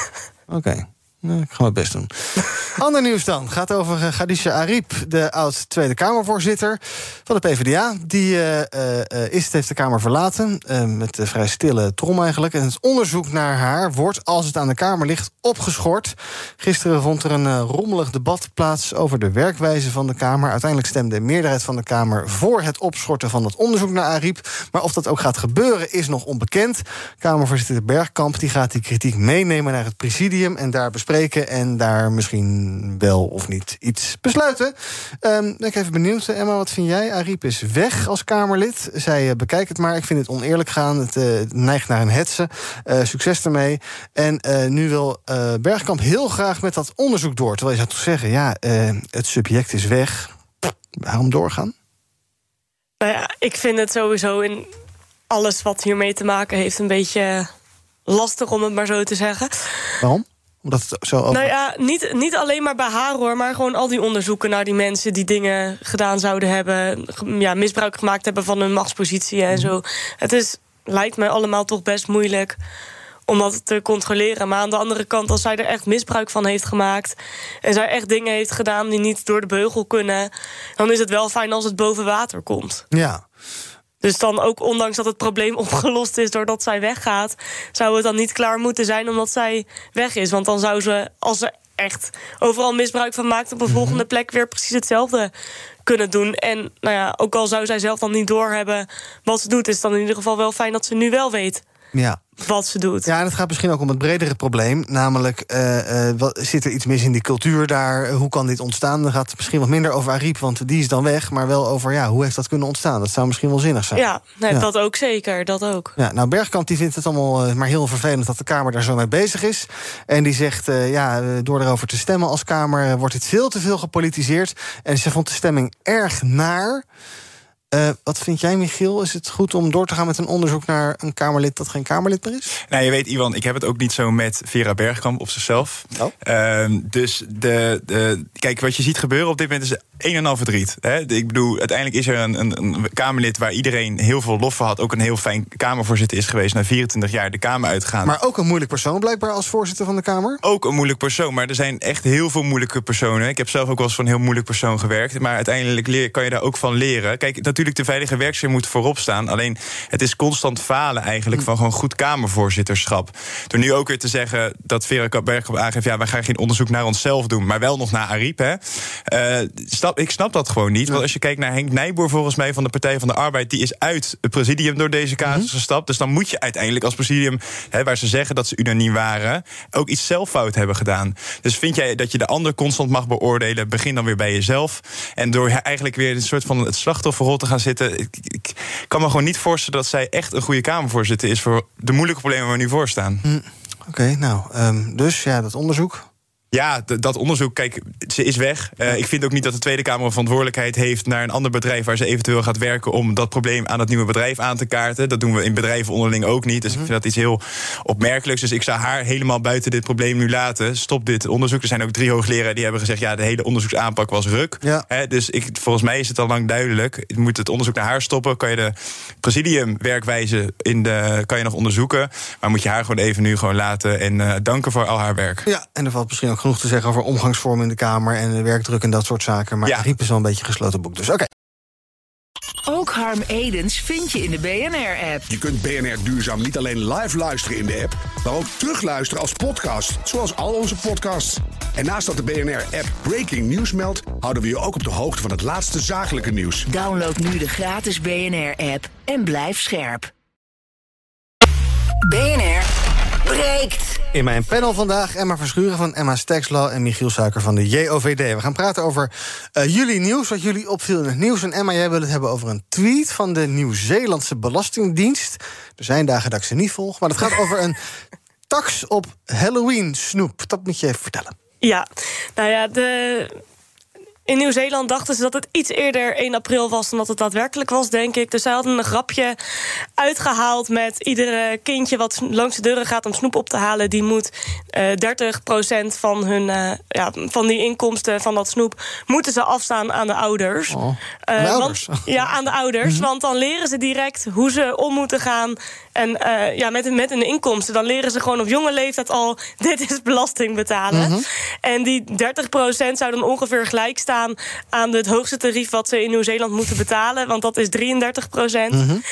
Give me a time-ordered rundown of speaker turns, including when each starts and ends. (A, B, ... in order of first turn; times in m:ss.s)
0:00.5-0:51.7 A
0:53.0-0:54.7 B
0:55.3-0:57.5 B
0:58.1-0:59.5 B
1:00.0-1:01.5 A
1:01.3-1:12.6 B
1:13.3-1:22.8 B
1:22.9-1:23.2 A
1:24.0-1:35.3 B
1:33.7-1:34.0 A
1:35.8-1:41.6 B
1:41.9-1:42.2 A
1:42.4-1:43.1 B
1:43.0-1:54.6 A
1:53.9-1:55.9 B
1:56.0-2:06.8 A
2:07.7-2:12.5 A
2:12.7-2:28.1 C
2:28.0-2:30.4 A
2:30.4-3:13.2 C
3:13.2-3:16.1 A
3:16.5-3:45.5 C
3:45.4-3:51.3 A
3:52.7-3:55.2 D
3:55.3-4:06.7 E
4:06.7-4:10.1 D
4:12.1-4:12.7 D
4:13.2-4:14.0 D
4:14.1-4:27.8 A
4:28.5-4:31.3 A
4:32.4-4:33.4 B
4:34.3-4:39.4 B
4:40.0-5:08.8 B
4:50.7-4:52.2 A
5:00.9-5:01.2 A
5:08.7-5:09.0 A